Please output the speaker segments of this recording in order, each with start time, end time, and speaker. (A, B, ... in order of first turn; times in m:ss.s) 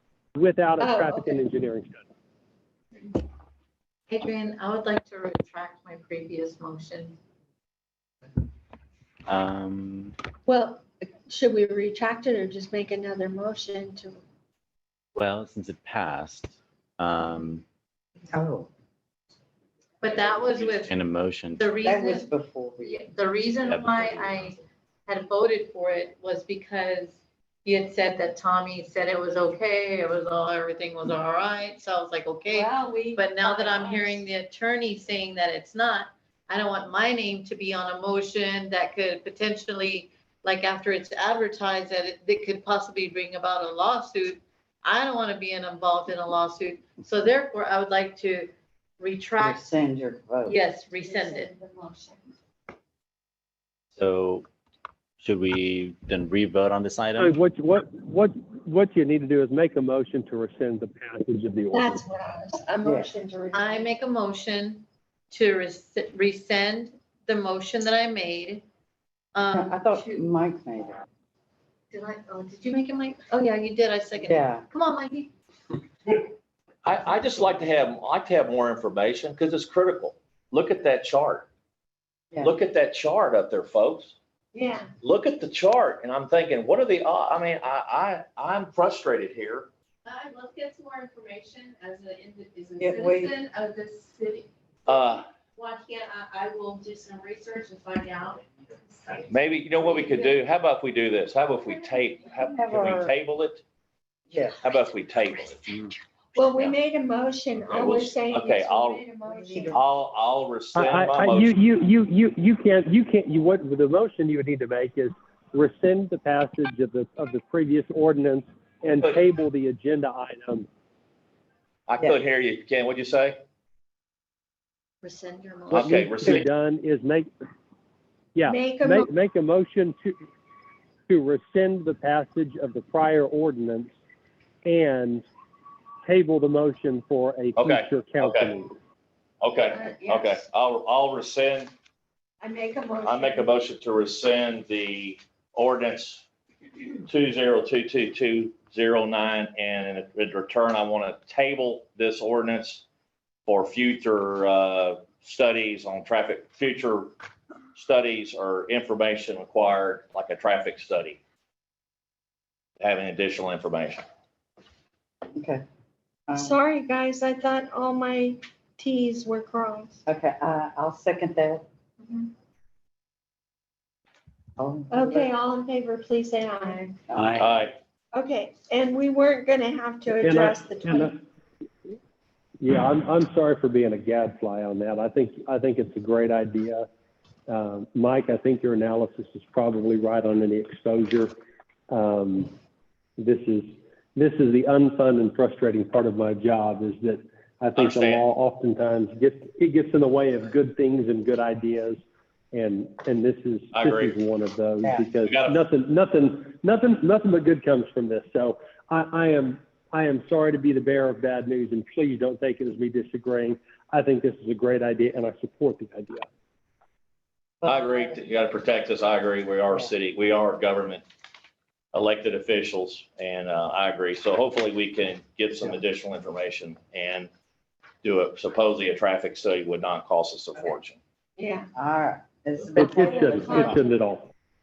0:00.3-0:02.0 A
0:00.8-0:01.4 B
0:04.1-0:07.2 C
0:09.2-0:10.1 D
0:10.4-0:14.2 B
0:15.2-0:17.6 D
0:18.3-0:18.7 E
0:20.0-0:20.9 C
0:20.6-0:21.7 D
0:21.6-0:22.3 C
0:21.8-0:23.1 E
0:22.8-0:49.6 C
0:23.6-0:24.3 D
0:32.5-0:33.0 E
0:33.4-0:34.2 F
0:49.4-0:50.6 E
0:50.4-0:51.5 C
0:51.0-0:52.2 B
0:53.9-0:54.5 D
0:55.2-0:57.4 D
0:57.2-1:02.0 A
1:01.7-1:03.9 B
1:02.8-1:03.1 E
1:03.5-1:08.6 C
1:09.3-1:10.2 C
1:09.5-1:11.0 E
1:11.9-1:15.3 C
1:14.2-1:14.6 E
1:16.8-1:21.5 G
1:22.4-1:24.2 G
1:24.5-1:24.9 B
1:25.0-1:29.7 G
1:30.0-1:35.0 F
1:32.8-1:33.4 E
1:34.9-1:35.2 G
1:35.6-1:40.4 F
1:39.3-1:43.6 G
1:42.4-1:43.1 E
1:44.3-1:44.6 E
1:44.6-1:45.7 G
1:46.3-1:49.8 B
1:47.7-1:49.0 G
1:49.4-1:49.8 E
1:49.7-1:51.5 G
1:50.7-2:00.7 A
1:58.9-1:59.2 G
2:01.9-2:03.4 G
2:05.0-2:05.8 B
2:05.7-2:06.5 G
2:05.7-2:07.3 A
2:08.3-2:10.2 A
2:08.5-2:09.1 B
2:11.1-2:13.9 A
2:14.6-2:15.2 A
2:16.0-2:18.7 A
2:17.6-2:18.5 G
2:19.4-2:21.7 G
2:19.7-2:20.4 B
2:22.4-2:23.5 B
2:23.0-2:26.2 G
2:27.1-2:32.8 G
2:33.4-2:37.1 G
2:37.7-2:41.2 G
2:42.8-2:44.0 G
2:45.4-2:45.6 E
2:46.3-2:46.6 E
2:46.4-2:50.0 B
2:50.0-2:51.6 E
2:54.6-2:55.3 E
2:54.9-2:57.0 B
2:57.1-2:57.4 E
2:57.2-2:57.4 D
2:57.4-2:57.8 G
2:58.1-3:01.1 B
3:00.2-3:01.2 A
3:02.6-3:06.9 A
3:07.5-3:11.3 A
3:11.9-3:12.5 A
3:13.2-3:36.2 A
3:17.8-3:18.3 G
3:23.7-3:24.1 G
3:24.8-3:25.1 E
3:25.2-3:25.6 G
3:37.6-3:41.0 G
3:41.9-3:47.3 G
3:48.0-3:51.0 G
3:51.4-3:51.7 B
3:51.7-3:53.7 E
3:52.8-3:54.3 A
3:52.8-3:53.8 B